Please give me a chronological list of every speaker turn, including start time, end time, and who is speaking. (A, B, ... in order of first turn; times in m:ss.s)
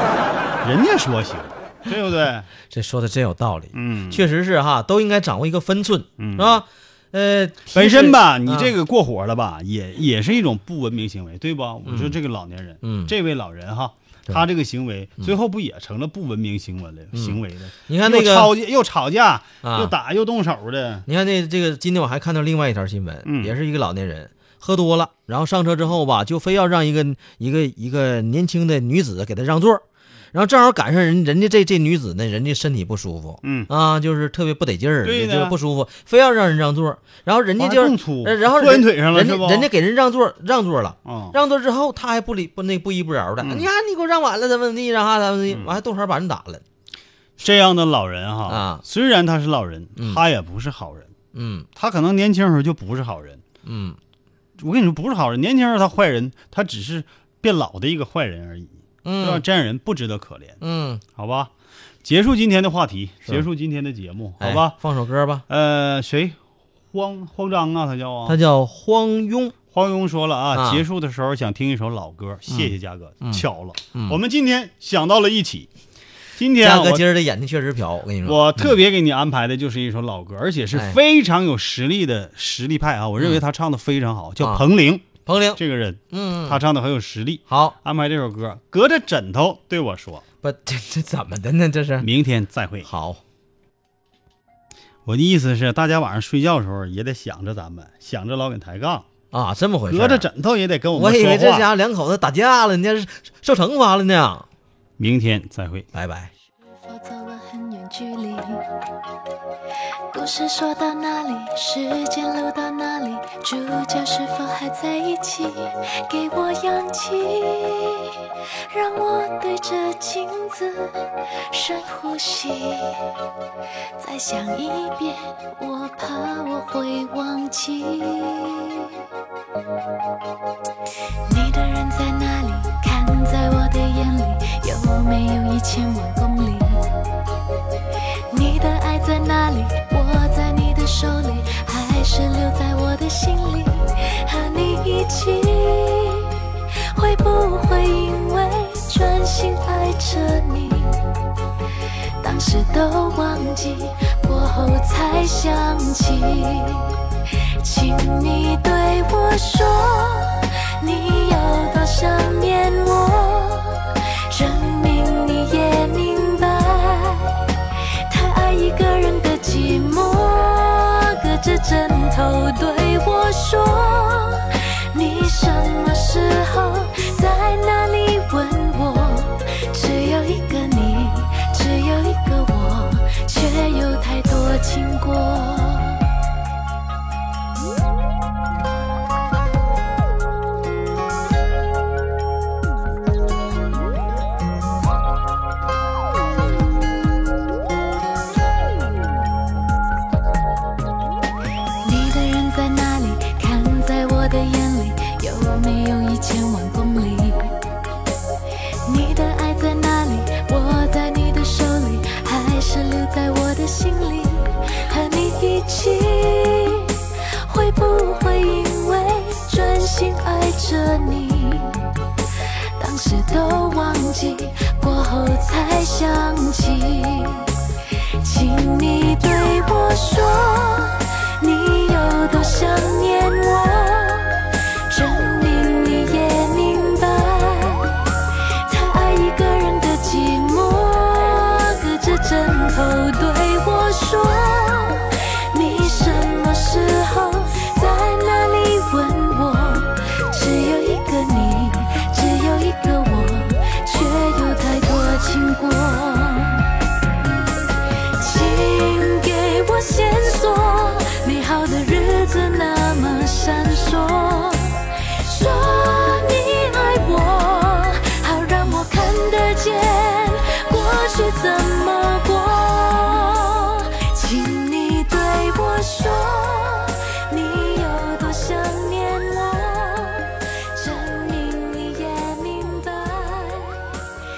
0:00.6-0:02.5 A
0:02.7-0:08.7 B
0:03.7-0:04.2 A
0:06.2-0:06.6 A
0:07.7-0:21.0 A
0:11.8-0:12.2 B
0:12.8-0:13.1 B
0:17.1-0:18.5 B
0:19.6-0:19.9 B
0:21.0-0:29.8 B
0:23.2-0:23.5 A
0:30.3-0:46.6 B
0:33.4-0:33.7 A
0:35.0-0:35.6 A
0:37.6-0:39.7 A
0:41.0-0:41.3 A
0:43.4-0:43.7 A
0:45.5-0:45.8 A
0:47.4-0:51.1 A
0:48.5-0:48.8 B
0:50.0-0:50.2 B
0:51.3-0:51.7 B
0:51.7-0:53.4 A
0:53.6-0:54.0 B
0:54.6-1:00.6 A
0:59.0-0:59.4 B
1:00.6-1:01.0 B
1:01.2-1:01.5 A
1:02.0-1:04.8 A
1:04.4-1:05.4 B
1:05.5-1:06.4 A
1:06.9-1:08.4 A
1:08.2-1:09.5 B
1:09.7-1:15.7 A
1:10.5-1:10.8 B
1:12.5-1:14.2 B
1:16.3-1:17.0 A
1:16.6-1:18.7 B
1:18.2-1:30.2 A
1:24.4-1:24.6 B
1:25.2-1:26.6 B
1:27.5-1:27.8 B
1:30.4-1:32.1 B
1:32.0-1:32.9 A
1:32.8-1:33.2 B
1:35.0-1:39.1 A
1:39.3-1:40.3 B
1:39.8-1:41.7 A
1:40.9-1:44.5 B
1:45.0-1:45.9 A
1:45.9-1:46.3 B
1:46.6-1:48.6 C
1:50.1-2:03.0 C
2:04.0-2:08.9 C
2:11.3-2:16.8 C
2:18.3-2:31.0 C
2:32.2-2:37.0 C
2:37.6-2:47.4 C
2:48.1-3:06.0 C
3:21.8-3:27.5 C
3:28.9-3:41.7 C
3:42.8-3:47.5 C
3:48.2-3:58.0 C
3:58.6-4:16.7 C
4:18.2-4:44.0 C